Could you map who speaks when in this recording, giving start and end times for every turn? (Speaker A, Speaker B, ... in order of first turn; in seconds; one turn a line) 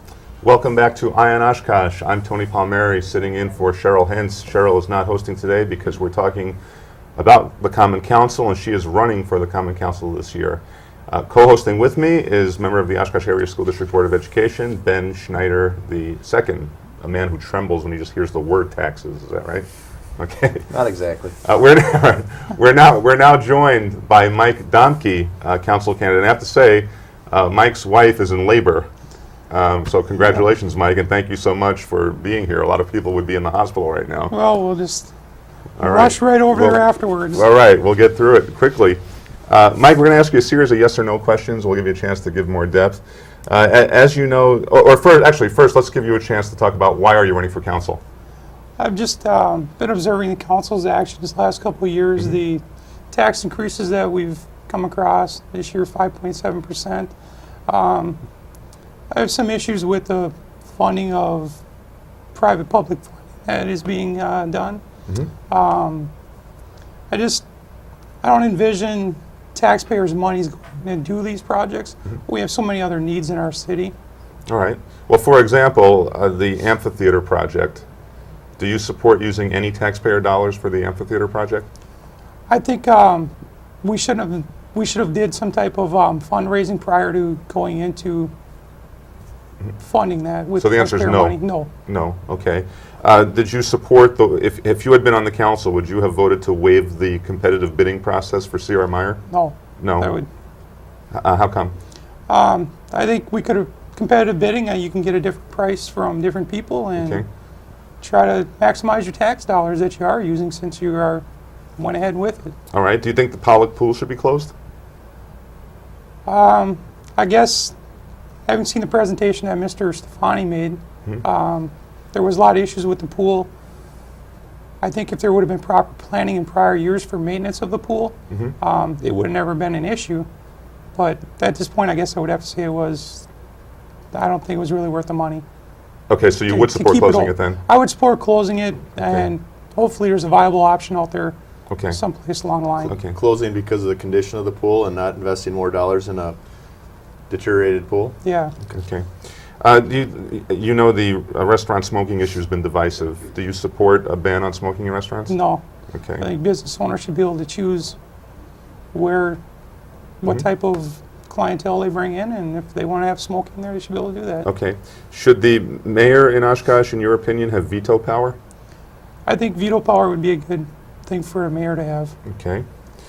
Speaker A: 0.4-6.6
Speaker A: 7.2-19.6
Speaker A: 20.2-20.7
Speaker B: 20.7-21.4
Speaker A: 21.4-28.9
Speaker A: 29.5-34.3
Speaker C: 34.3-35.1
Speaker A: 35.8-48.0
Speaker C: 35.8-37.4
Speaker C: 48.8-57.1
Speaker C: 57.7-58.2
Speaker C: 59.1-61.6
Speaker C: 62.3-64.8
Speaker C: 65.5-66.1
Speaker C: 67.1-67.5
Speaker C: 68.2-73.9
Speaker A: 74.5-77.8
Speaker A: 78.6-81.7
Speaker C: 82.5-88.3
Speaker C: 89.8-91.7
Speaker A: 90.6-99.2
Speaker C: 99.3-100.3
Speaker A: 99.8-100.2
Speaker A: 101.1-101.7
Speaker C: 102.3-107.2
Speaker A: 107.0-107.2
Speaker C: 108.0-111.2
Speaker C: 111.8-112.5
Speaker A: 112.7-114.5
Speaker C: 116.2-117.7
Speaker C: 118.5-123.5
Speaker C: 124.8-130.3
Speaker A: 128.3-128.6
Speaker C: 130.9-133.2
Speaker C: 134.1-135.4
Speaker A: 136.1-137.6
Speaker C: 136.5-141.3
Speaker A: 139.0-139.3
Speaker A: 141.7-142.0
Speaker C: 141.9-142.9
Speaker B: 142.8-146.4
Speaker A: 142.9-143.2
Speaker B: 147.3-148.2
Speaker C: 148.2-148.5
Speaker A: 148.7-149.1
Speaker A: 149.6-155.4
Speaker C: 155.3-155.6
Speaker A: 155.9-156.2
Speaker C: 156.2-158.0
Speaker C: 158.9-159.4
Speaker C: 160.2-164.5
Speaker A: 164.4-168.4
Speaker C: 169.2-172.1
Speaker A: 172.2-172.6